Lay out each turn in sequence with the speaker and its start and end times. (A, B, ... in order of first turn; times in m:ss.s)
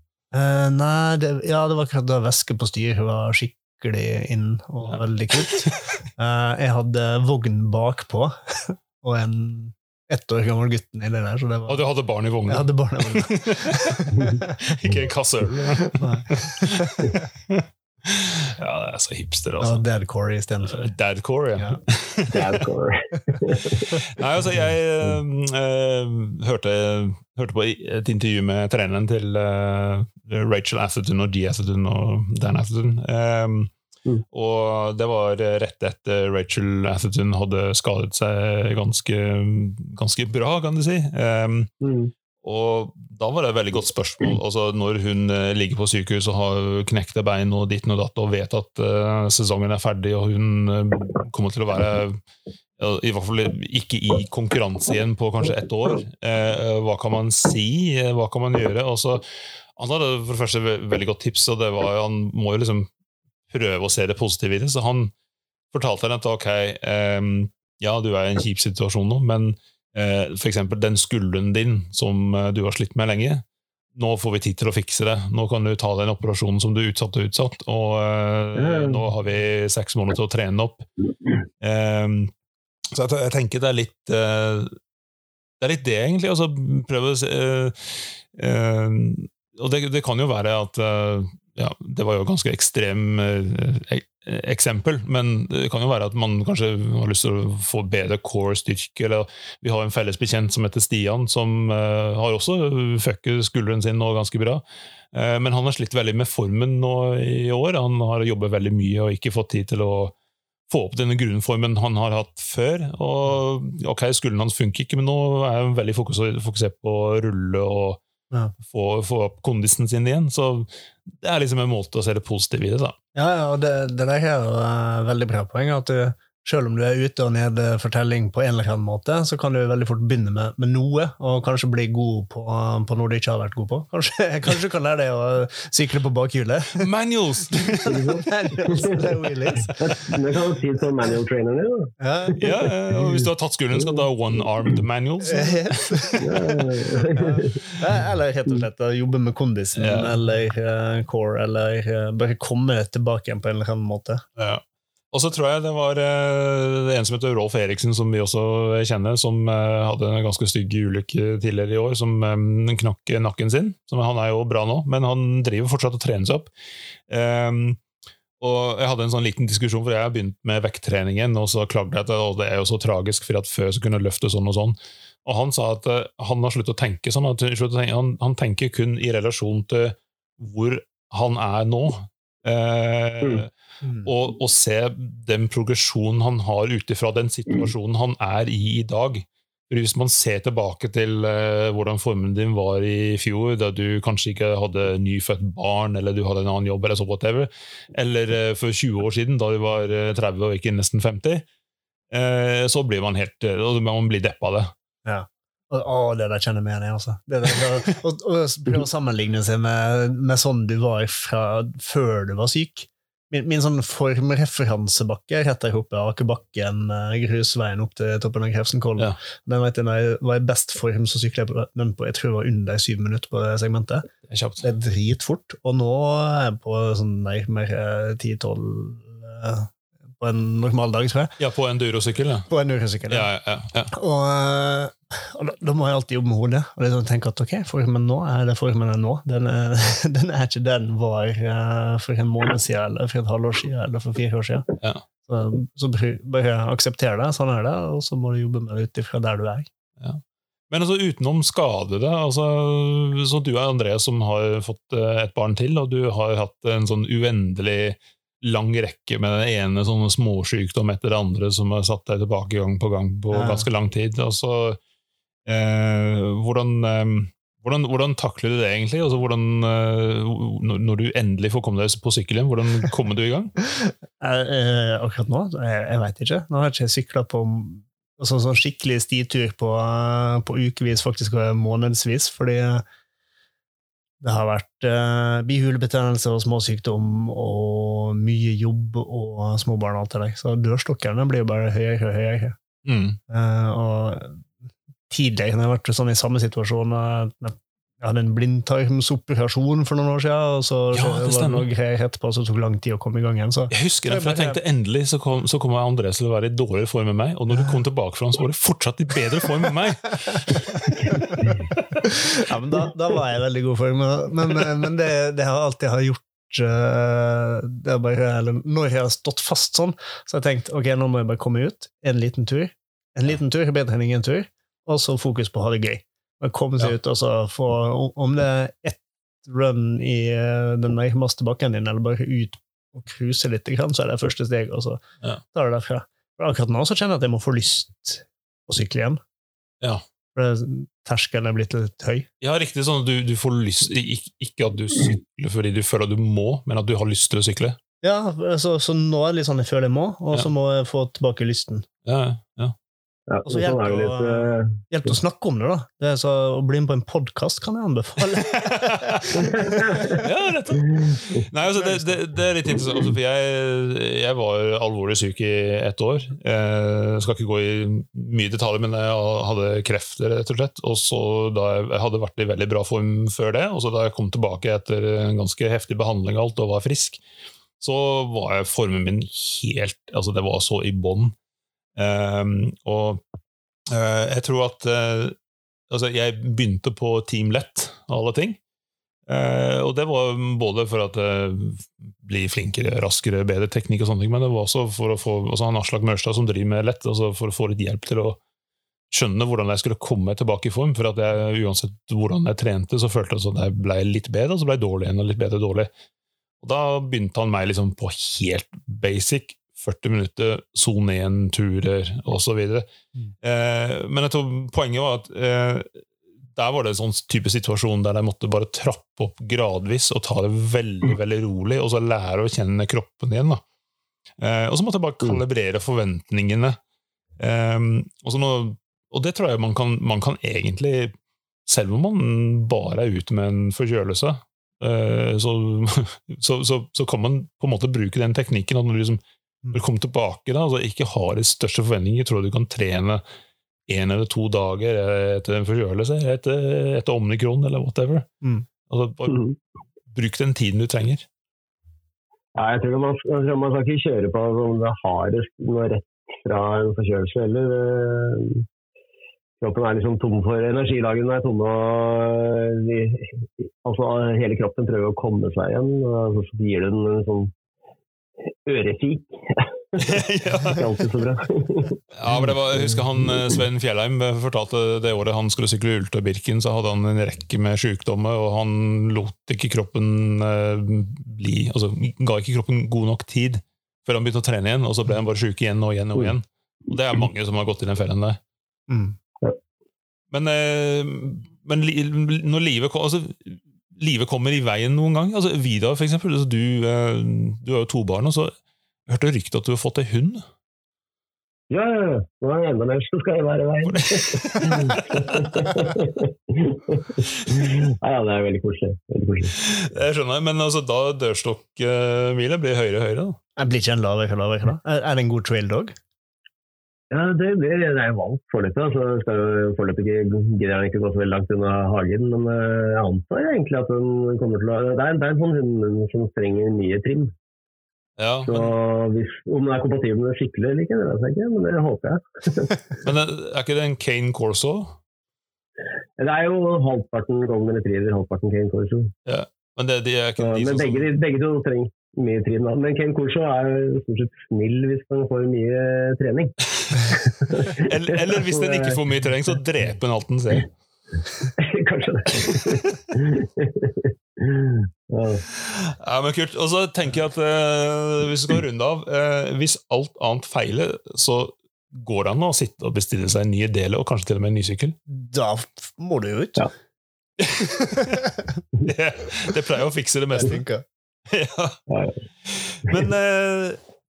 0:00.3-0:11.8 A
0:04.8-0:05.6 B
0:11.7-0:19.8 B
0:12.5-0:14.5 A
0:16.0-0:17.0 A
0:19.6-0:20.8 A
0:20.7-0:22.6 B
0:22.3-0:24.0 C
0:23.9-0:33.7 B
0:34.3-0:41.7 B
0:41.8-0:42.1 C
0:42.4-0:52.2 B
0:52.8-1:02.9 B
1:03.5-1:05.1 B
1:05.7-1:20.9 B
1:18.6-1:19.0 C
1:21.6-1:22.3 B
1:22.9-1:24.8 B
1:25.6-1:50.1 B
1:50.7-1:58.0 B
1:58.6-2:03.0 B
2:03.2-2:16.9 A
2:16.8-2:18.0 B
2:17.9-2:19.1 C
2:17.9-2:19.7 A
2:19.8-2:23.2 C
2:22.0-2:22.4 A
2:22.4-2:26.5 B
2:23.8-2:24.1 C
2:25.2-2:26.4 A
2:26.2-2:27.7 C
2:27.2-2:34.2 A
2:29.8-2:30.2 B
2:34.4-2:46.5 B
2:47.1-2:47.8 B
2:48.4-3:03.5 B
3:04.0-3:21.5 B
3:22.1-3:24.7 B
3:25.0-3:44.1 A
3:44.3-3:44.7 B
3:44.6-3:51.4 A
3:51.4-3:52.5 B
3:52.5-3:53.3 A
3:53.1-3:53.9 B
3:53.9-4:04.7 A
4:05.2-4:09.7 A
4:10.0-4:24.8 B
4:23.3-4:23.7 A
4:25.5-4:33.5 B
4:33.8-4:42.8 A
4:44.2-4:52.6 A
4:52.8-4:53.2 B
4:53.3-4:54.5 A
4:55.1-5:04.6 A
5:00.9-5:01.6 B
5:03.7-5:12.1 B
5:12.1-5:35.0 A
5:35.5-5:39.2 A
5:40.4-5:42.3 A
5:42.4-5:47.8 B
5:48.0-5:51.9 A
5:52.0-5:52.8 B
5:53.3-5:54.8 C
5:53.5-6:00.2 A
5:58.4-5:59.5 B
5:59.5-6:00.2 C
6:00.2-6:17.2 B
6:01.8-6:02.2 A
6:17.8-6:21.4 B
6:22.0-6:23.2 B
6:23.9-6:25.4 B
6:25.9-6:28.6 B
6:29.3-6:38.4 B
6:39.1-6:45.9 B
6:46.6-6:52.9 B
6:53.4-7:03.6 B
7:04.4-7:06.8 B
7:07.4-7:11.1 B
7:11.7-7:19.2 B
7:19.7-7:23.2 B
7:23.9-7:28.3 B
7:28.9-7:29.6 B
7:30.1-7:31.3 B
7:32.6-7:38.6 C
7:39.6-7:47.5 C
7:48.6-7:50.0 C
7:50.0-7:50.8 B
7:50.7-7:52.0 C
7:52.2-8:08.4 B
8:08.9-8:09.2 A
8:10.3-8:18.5 B
8:19.1-8:20.4 B
8:21.7-8:29.6 C
8:23.8-8:25.7 B
8:29.6-8:33.4 B
8:33.6-8:36.0 A
8:37.1-8:47.3 C
8:48.2-8:48.7 B
8:48.5-8:52.8 C
8:53.0-8:55.0 B
8:56.2-8:59.1 C
8:59.3-9:01.1 B
9:00.4-9:09.0 C
9:06.8-9:10.7 B
9:11.6-9:15.4 C
9:12.5-9:12.9 B
9:15.6-9:25.0 B
9:25.1-9:26.7 A
9:27.4-9:28.3 B
9:28.0-9:28.5 A
9:28.8-9:30.6 B
9:30.4-9:30.8 A
9:31.3-9:31.8 B
9:31.9-9:32.1 C
9:32.5-9:33.8 B